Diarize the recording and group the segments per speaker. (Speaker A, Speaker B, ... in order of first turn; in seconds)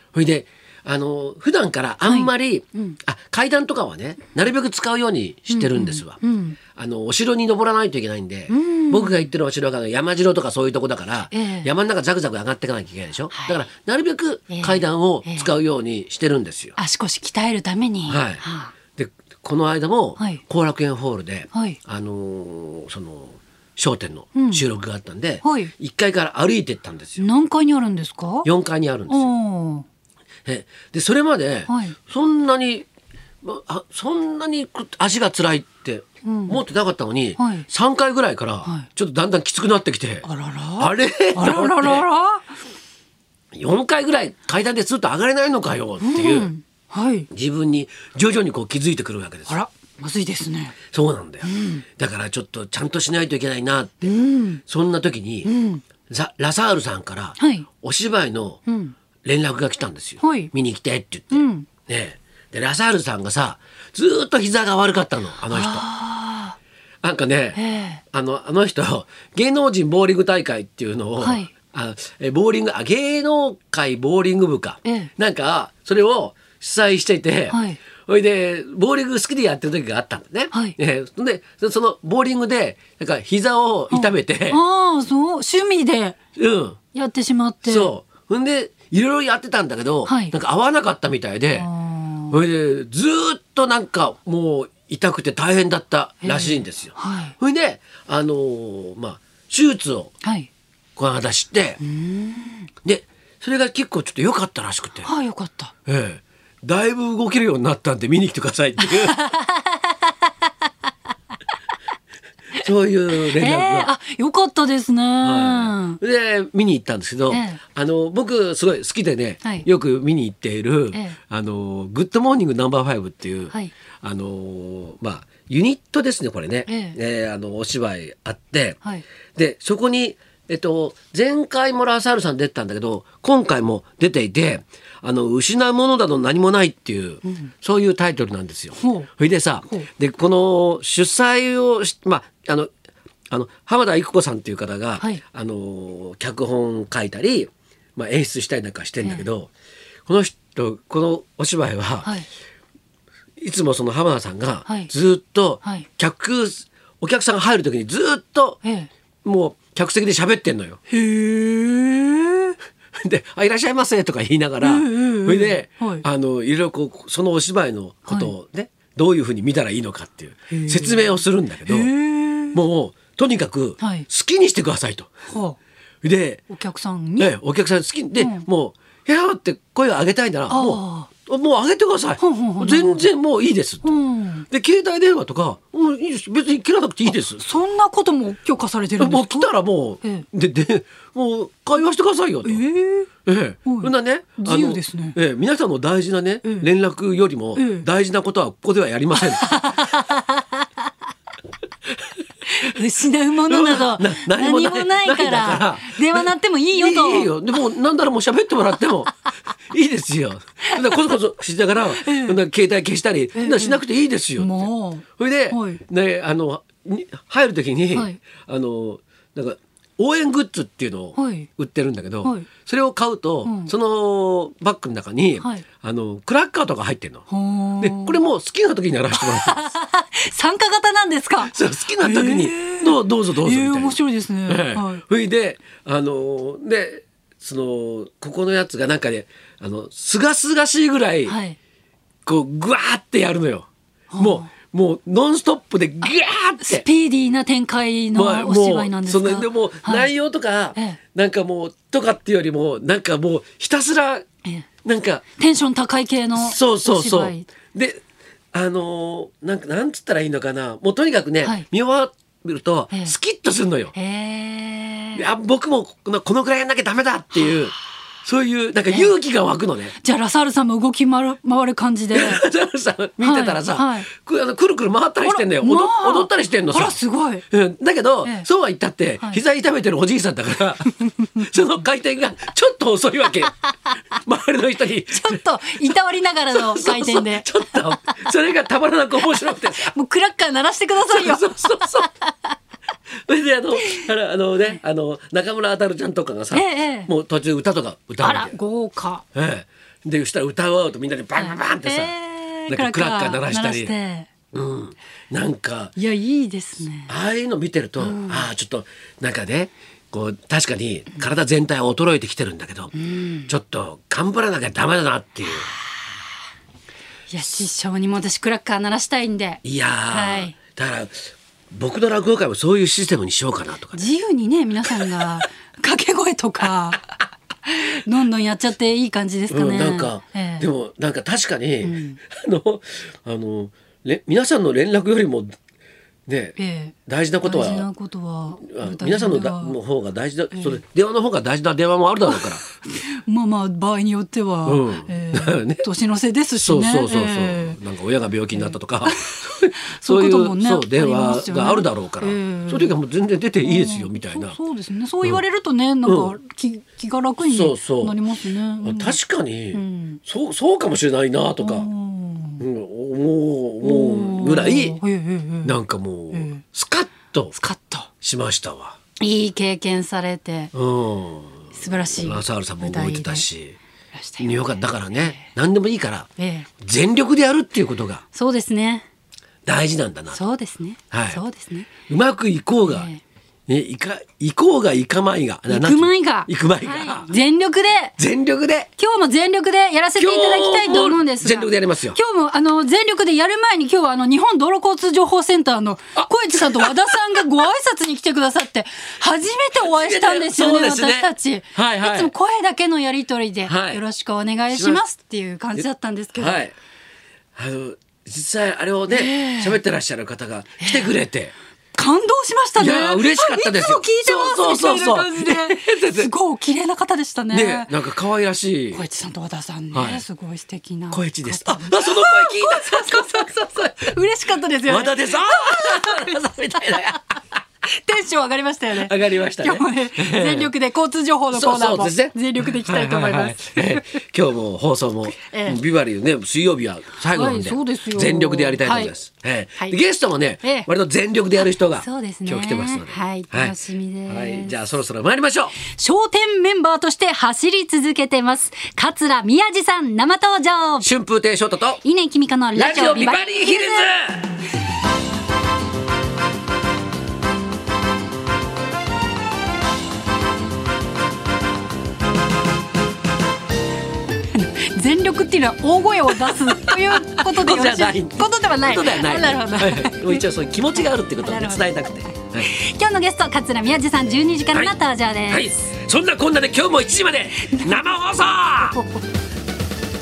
Speaker A: 0.1-6.2, 6.7-16.8, 18.1-27.2, 28.4-29.3, 30.4-32.9, 33.4-42.0, 43.5-46.5, 47.3-49.6, 50.9-54.1, 54.6-55.5, 56.1-58.6, 59.2-65.9, 67.0-84.6, 86.3-86.8, 87.6-91.7, 92.3-100.1, 101.0-101.8, 102.8-105.1, 105.8-109.3, 112.6-113.9, 115.2-128.8, 129.3-142.7, 143.3-149.5, 150.1-152.1, 153.4-158.6, 159.2-160.9, 163.0-171.9, 172.5-175.1, 176.0-176.4, 177.2-183.9, 184.5-187.4, 189.0-192.6, 193.2-199.8, 203.5-209.1, 209.7-227.2, 227.8-229.6, 231.4-241.3, 242.2-246.8, 248.1-254.2, 254.8-255.2, 256.4-258.0, 258.5-263.9, 265.1-269.9, 272.1-277.0, 277.5-283.5, 284.2-285.9, 286.5-289.9, 291.1-292.1, 293.2-298.6, 299.3-302.1, 302.7-303.9, 304.5-305.9, 307.1-312.9, 313.5-315.7, 319.6-324.1, 324.9-325.4, 329.5-335.6, 336.3-337.9, 338.6-342.7, 344.6-345.8, 346.6-354.6, 356.0-356.4, 357.4-358.1, 358.8-361.9, 362.6-365.0, 365.6-367.6, 368.2-369.0, 370.7-373.8, 374.4-376.3, 376.8-378.2, 379.6-380.4, 381.1-381.4, 381.9-383.1, 383.7-387.3, 388.2-388.9, 390.2-392.2, 396.1-397.2, 399.7-402.3, 403.6-404.0, 404.7-405.0, 405.7-406.7, 407.6-411.5, 412.8-416.3, 417.5-419.0, 419.9-420.2, 421.1-423.5, 424.9-427.3, 428.9-430.7, 431.5-443.7, 444.3-445.8, 451.0-452.0, 452.7-454.6, 466.4-472.7, 475.5-479.0
Speaker B: 2.1-3.0, 5.5-6.6, 8.5-9.2, 11.3-11.7, 13.3-13.6, 14.5-15.5, 16.8-18.7, 21.5-21.8, 24.3-24.6, 25.4-25.7, 27.2-28.5, 29.1-29.8, 31.7-31.9, 36.2-36.6, 37.4-37.7, 40.2-42.5, 46.0-47.3, 49.5-50.8, 51.4-51.8, 54.0-54.6, 55.4-55.8, 57.4-57.6, 58.7-58.9, 60.2-60.5, 61.3-61.7, 65.5-66.5, 67.5-68.0, 71.2-71.5, 74.8-75.1, 77.5-77.8, 80.5-80.8, 83.9-86.2, 86.9-87.9, 90.0-90.3, 91.5-92.4, 96.2-97.3, 100.2-100.5, 101.8-102.7, 105.0-105.7, 108.8-109.9, 113.2-116.0, 117.3-117.6, 126.7-127.0, 137.2-137.5, 138.8-139.1, 154.7-154.9, 155.6-155.9, 158.6-158.9, 160.9-162.5, 164.6-166.0, 168.1-168.3, 170.5-172.6, 173.8-174.1, 175.3-175.6, 176.5-177.3, 178.2-178.4, 180.5-181.1, 182.2-183.1, 183.8-184.4, 187.1-189.5, 190.0-190.2, 192.4-193.1, 193.7-195.2, 196.4-196.7, 197.6-197.9, 199.1-200.7, 202.5-207.4, 210.7-211.2, 212.0-212.4, 213.3-213.8, 214.4-215.8, 217.9-218.2, 221.2-221.5, 223.4-223.7, 225.4-225.6, 227.3-228.2, 229.1-235.0, 241.2-241.6, 244.1-244.5, 246.0-250.1, 255.4-257.5, 263.9-265.3, 267.4-267.6, 270.0-272.4, 273.2-274.1, 275.2-277.4, 285.1-287.9, 289.3-292.5, 296.5-297.1, 298.2-299.2, 301.4-304.3, 305.9-307.1, 308.0-308.5, 312.9-313.5, 315.4-316.2, 317.3-320.5, 323.9-327.1, 327.6-330.7, 331.8-332.2, 336.6-339.7, 342.3-347.8, 348.6-352.9, 353.6-359.2, 359.7-360.2, 361.6-362.6, 363.8-365.8, 366.3-366.6, 367.5-368.1, 369.2-370.7, 371.7-373.4, 374.1-375.4, 376.4-376.7, 378.3-379.0, 380.3-381.9, 382.8-383.2, 385.7-388.1, 389.0-406.6, 409.1-409.8, 410.8-411.1, 411.9-418.0, 418.9-427.0, 427.9-434.0, 435.4-435.8, 437.3-439.1, 440.6-440.9, 441.8-444.8, 445.8-451.1, 452.0-454.1, 464.5-470.4, 470.9-475.8